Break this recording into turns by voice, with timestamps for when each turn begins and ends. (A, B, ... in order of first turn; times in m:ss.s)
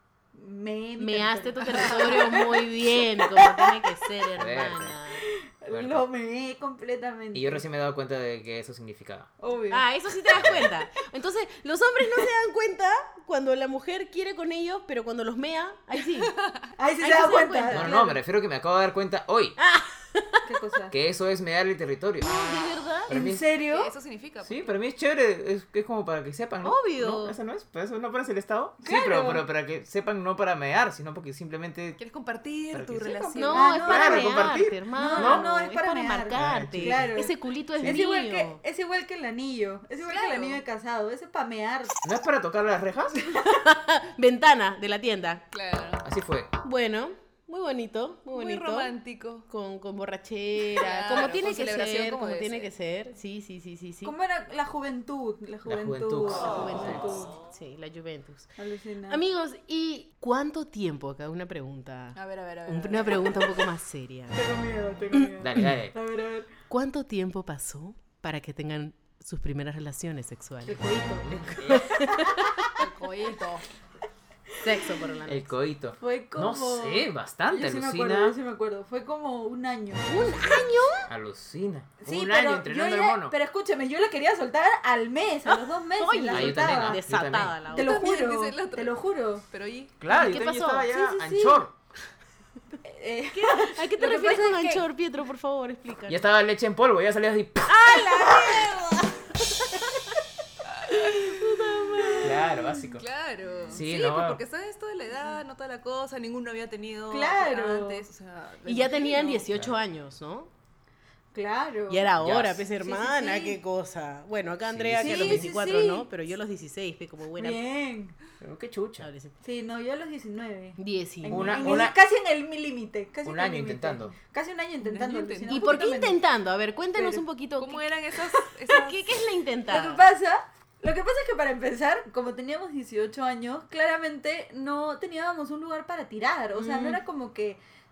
0:00.3-0:03.8 A
0:01.0-0:05.3 B
0:01.7-0:02.1 C
0:04.4-0:05.0 D
0:05.2-0:07.6 A
0:05.7-0:06.0 D
0:07.3-0:09.3 D
0:09.4-0:09.9 A
0:09.7-0:16.3 B
0:10.3-0:10.7 D
0:16.2-0:16.7 C
0:16.8-0:18.2 A
0:17.0-0:17.9 B
0:17.7-0:19.6 D
0:19.6-0:20.4 B
0:20.4-0:20.9 A
0:20.9-0:22.4 D
0:22.2-0:23.1 B
0:23.1-0:23.4 D
0:23.1-0:23.9 A
0:23.6-0:24.7 C
0:24.4-0:32.0 D
0:26.6-0:27.4 B
0:28.8-0:29.4 A
0:32.0-0:33.9 C
0:32.7-0:35.4 D
0:33.3-0:42.0 A
0:33.4-0:38.6 B
0:36.3-0:37.2 D
0:40.0-0:40.6 C
0:42.0-0:43.3 D
0:43.3-0:45.4 B
0:45.5-0:46.0 C
0:46.0-0:46.5 D
0:46.6-0:48.9 B
0:48.3-0:49.5 C
0:49.5-0:54.1 B
0:50.6-0:52.7 C
0:54.0-0:57.3 A
0:55.6-0:57.0 D
0:56.4-0:58.5 B
0:58.6-0:59.2 A
0:59.1-1:04.4 B
1:02.1-1:03.6 C
1:04.3-1:06.5 A
1:05.1-1:05.7 B
1:05.4-1:05.9 D
1:06.7-1:10.8 B
1:10.6-1:12.7 A
1:11.2-1:12.0 D
1:11.6-1:12.7 B
1:12.8-1:13.6 C
1:14.6-1:15.5 B
1:15.2-1:18.4 D
1:16.0-1:20.6 A
1:20.1-1:21.1 B
1:21.1-1:23.3 D
1:22.0-1:27.0 A
1:25.5-1:28.0 B
1:26.3-1:27.5 D
1:27.7-1:29.4 A
1:27.7-1:29.0 C
1:29.5-1:30.0 C
1:30.0-1:31.7 D
1:30.1-1:30.9 B
1:30.1-1:31.6 A
1:32.8-1:34.8 A
1:33.3-1:36.2 B
1:36.1-1:38.0 D
1:37.7-1:39.1 B
1:37.9-1:39.0 A
1:39.6-1:39.9 B
1:40.6-1:41.3 C
1:40.9-1:42.8 B
1:42.1-1:42.4 A
1:42.2-1:43.0 D
1:42.9-1:49.5 C
1:43.7-1:44.4 D
1:47.1-1:48.0 A
1:48.6-1:50.5 B
1:49.5-1:49.7 D
1:51.3-1:52.1 A
1:51.9-1:57.6 B
1:52.2-1:52.6 D
1:52.8-1:53.6 A
1:54.7-1:55.5 D
1:55.0-1:56.1 A
1:57.4-1:58.2 A
1:58.4-1:59.1 D
1:59.0-1:59.3 B
1:59.4-2:06.2 A
2:00.8-2:01.8 B
2:01.3-2:02.0 D
2:03.2-2:04.1 D
2:04.8-2:05.8 C
2:05.5-2:07.9 B
2:07.6-2:09.2 C
2:08.7-2:10.0 B
2:09.7-2:17.6 A
2:16.5-2:17.0 B